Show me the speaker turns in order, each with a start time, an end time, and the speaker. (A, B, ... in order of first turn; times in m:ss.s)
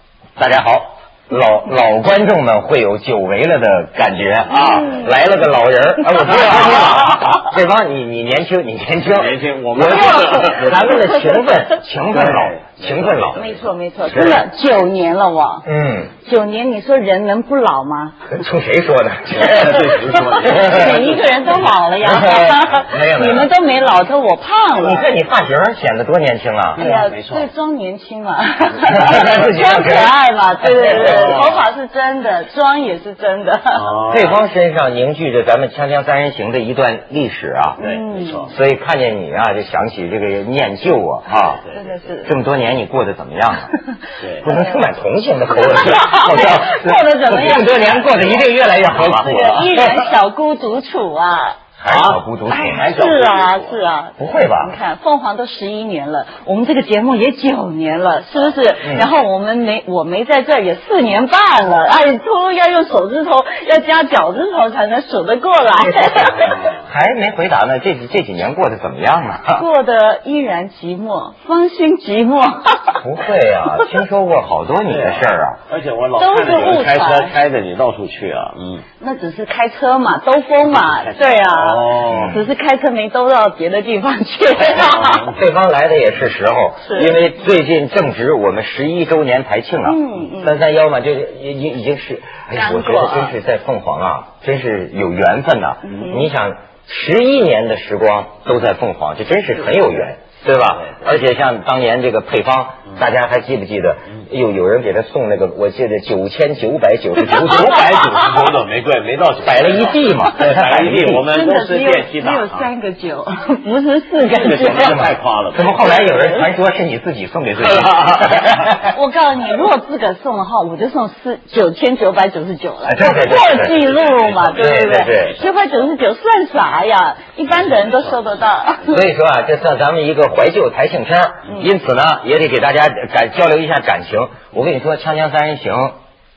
0:00.4-0:13.4 A
0:04.5-0:05.1 B
0:06.4-0:07.0 C
0:09.1-0:10.9 C
0:10.1-0:11.4 B
0:12.1-0:13.6 C
0:13.3-0:18.2 B
0:14.0-0:14.4 A
0:15.6-0:16.1 A
0:18.3-0:20.7 A
0:19.4-0:21.3 C
0:20.4-0:25.1 B
0:22.0-0:23.5 A
0:24.8-0:26.8 A
0:26.8-0:27.5 C
0:26.8-0:33.9 B
0:28.9-0:30.1 A
0:30.6-0:31.4 A
0:30.8-0:31.6 C
0:33.7-0:34.4 C
0:34.1-0:37.8 A
0:37.8-0:38.5 B
0:37.8-0:38.5 C
0:38.5-0:41.6 A
0:41.7-0:42.3 B
0:42.2-0:43.7 A
0:44.2-0:44.5 C
0:44.4-0:50.0 A
0:45.6-0:48.2 B
0:48.9-0:49.7 C
0:48.9-0:51.6 B
0:51.8-0:52.9 A
0:51.9-0:53.8 C
0:52.5-1:06.6 B
0:54.2-0:54.7 A
0:58.8-0:59.1 A
1:06.0-1:09.6 A
1:09.5-1:13.0 B
1:13.0-1:15.6 A
1:14.9-1:18.8 C
1:16.2-1:17.3 B
1:19.0-1:25.3 B
1:20.6-1:22.4 C
1:22.1-1:22.4 A
1:24.8-1:25.4 C
1:25.3-1:48.1 A
1:26.8-1:27.2 B
1:29.8-1:30.6 B
1:32.5-1:33.3 B
1:35.8-1:36.3 B
1:47.2-1:52.7 C
1:49.4-1:51.2 A
1:51.3-1:55.0 B
1:54.3-1:56.1 C
1:54.6-1:58.9 A
1:55.8-1:56.4 B
1:57.7-1:58.4 C
1:58.8-2:09.0 B
2:02.8-2:03.8 A
2:03.7-2:05.2 C
2:04.5-2:05.4 A
2:08.9-2:15.9 A